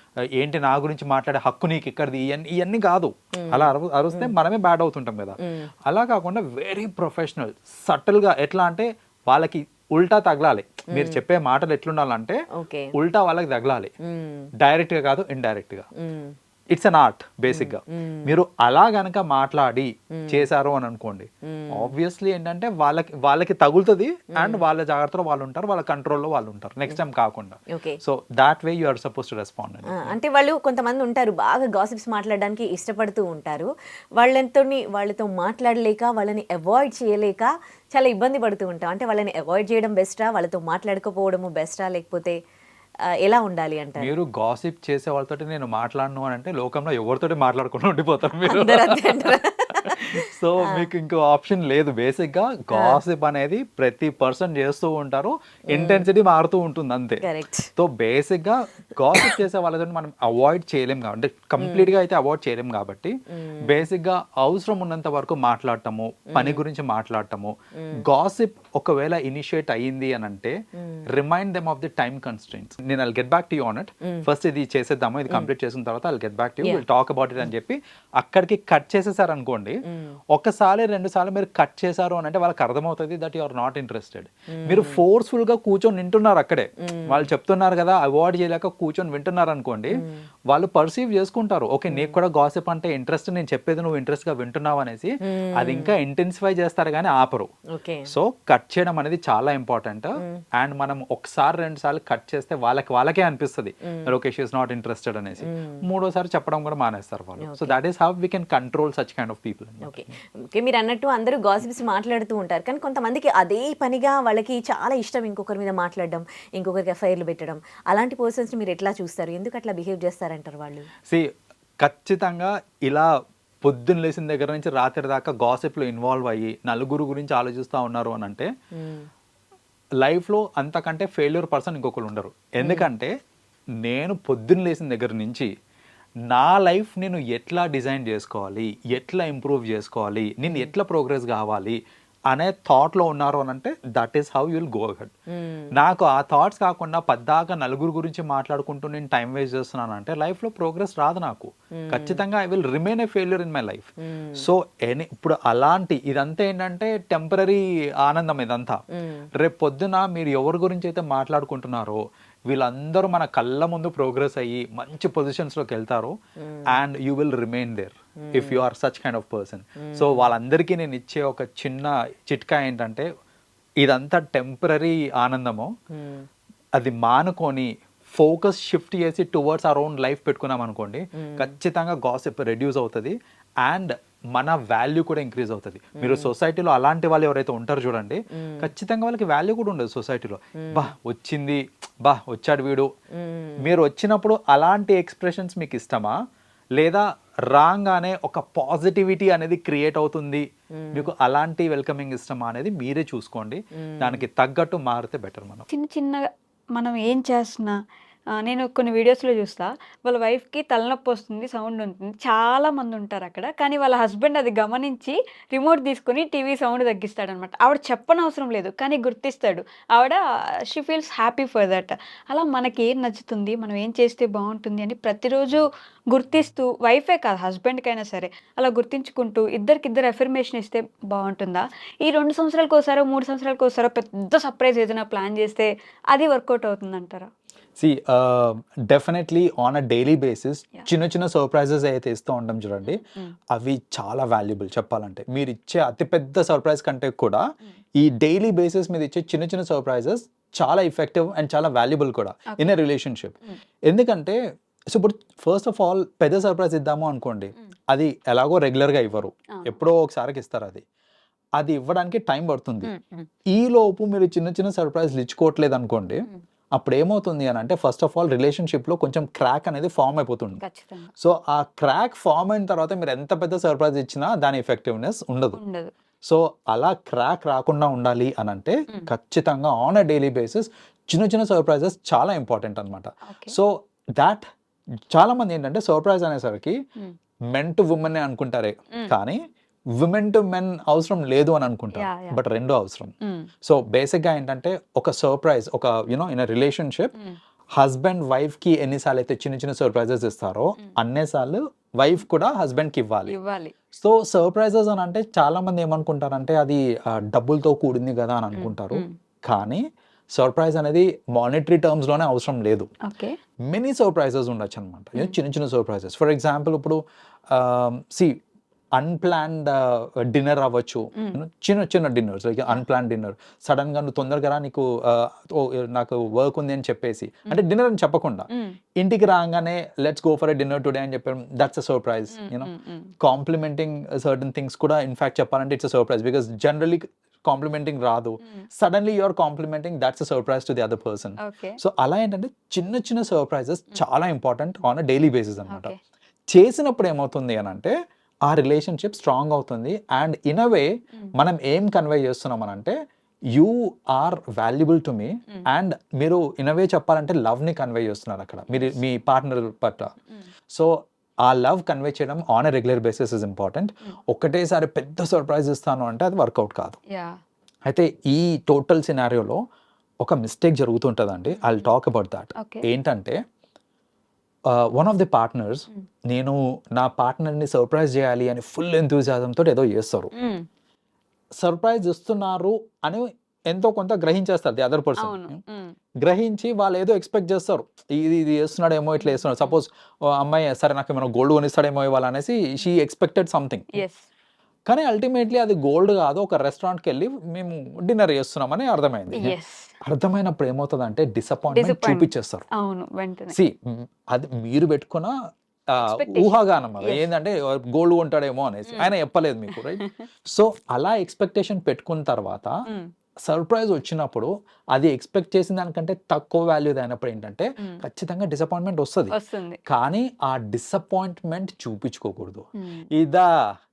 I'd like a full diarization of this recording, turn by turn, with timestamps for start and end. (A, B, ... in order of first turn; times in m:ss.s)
0:00.4-0:12.4 A
0:03.4-0:04.3 B
0:11.0-0:11.2 B
0:12.6-0:12.9 B
0:12.9-0:13.9 A
0:14.1-0:14.5 B
0:14.6-0:15.9 A
0:16.0-0:16.4 B
0:16.7-0:30.1 A
0:17.5-0:18.3 B
0:20.2-0:20.5 B
0:21.5-0:21.9 B
0:24.4-0:24.6 B
0:27.7-0:28.0 B
0:29.9-0:42.4 B
0:43.2-0:44.1 B
0:44.0-0:57.2 A
0:48.5-0:50.9 B
0:52.7-0:53.0 B
0:55.7-0:56.0 B
0:57.2-0:57.7 B
0:57.8-1:07.5 A
1:01.6-1:01.9 B
1:03.4-1:03.8 B
1:06.3-1:06.6 B
1:08.0-1:10.6 A
1:10.8-1:11.1 B
1:11.1-1:19.8 A
1:19.9-1:20.2 B
1:20.3-1:37.5 A
1:24.6-1:25.0 B
1:26.8-1:27.2 B
1:31.9-1:32.2 B
1:35.2-1:35.9 B
1:37.7-1:38.1 B
1:38.1-1:50.1 A
1:45.4-1:45.8 B
1:47.4-1:47.8 B
1:49.9-2:00.9 B
2:01.1-2:03.1 A
2:03.6-2:08.5 A
2:08.8-2:09.1 B
2:10.0-2:13.1 A
2:13.8-2:15.5 A
2:16.3-2:21.8 A
2:20.5-2:20.7 B
2:22.3-2:25.1 A
2:25.3-2:25.7 B
2:25.7-2:38.8 A
2:31.8-2:32.2 B
2:34.0-2:34.5 B
2:38.9-2:39.3 B
2:39.4-2:46.2 A
2:46.4-2:46.8 B
2:46.7-2:53.1 A
2:48.2-2:48.6 B
2:49.8-2:50.2 B
2:53.8-2:55.7 A
2:55.9-2:56.3 B
2:56.8-3:12.9 A
3:01.2-3:01.5 B
3:06.0-3:06.3 B
3:08.3-3:08.7 B
3:10.6-3:10.9 B
3:13.2-3:13.6 B
3:13.6-3:16.2 A
3:16.8-3:25.7 A
3:20.8-3:21.1 B
3:23.8-3:24.2 B
3:25.7-3:27.8 C
3:28.4-3:57.3 C
3:57.8-4:03.0 A
4:02.8-4:03.4 C
4:03.5-4:07.4 A
4:08.0-4:13.4 A
4:13.9-4:14.4 A
4:14.9-4:20.8 A
4:21.6-4:22.9 A
4:22.8-4:23.3 C
4:23.5-4:30.6 A
4:30.6-4:31.1 C
4:31.2-4:35.6 A
4:35.6-4:35.9 C
4:36.2-4:44.4 A
4:43.3-4:43.6 C
4:45.1-4:46.8 A
4:47.5-4:49.4 A
4:50.0-4:57.1 A
4:52.0-4:52.4 C
4:53.2-4:53.5 C
4:57.8-5:03.4 A
5:03.3-5:03.7 C
5:03.9-5:09.8 A
5:08.6-5:09.1 C
5:10.4-5:12.9 A
5:13.1-5:13.4 C
5:13.7-5:17.0 A
5:17.5-5:18.4 A
5:19.0-5:45.9 A
5:32.4-5:33.1 C
5:41.4-5:41.8 C
5:45.7-5:46.0 C
5:46.5-5:47.9 A
5:48.4-5:53.0 A
5:53.5-6:00.1 A
6:00.7-6:07.0 A
6:07.1-6:07.4 C
6:07.9-6:09.6 A
6:10.2-6:13.4 A
6:11.5-6:11.9 C
6:12.6-6:12.8 C
6:14.7-6:20.3 A
6:20.4-6:20.7 C
6:21.6-6:25.6 A
6:25.2-6:26.0 C
6:26.2-6:34.0 A
6:29.2-6:29.8 C
6:33.9-6:34.3 C
6:34.9-6:42.7 A
6:39.4-6:39.9 C
6:41.7-6:43.6 C
6:43.5-6:45.3 A
6:45.9-6:52.7 A
6:46.0-6:47.2 C
6:50.0-6:50.2 C
6:53.5-6:59.4 A
6:59.3-6:59.8 C
6:59.9-7:03.5 A
7:02.8-7:03.1 C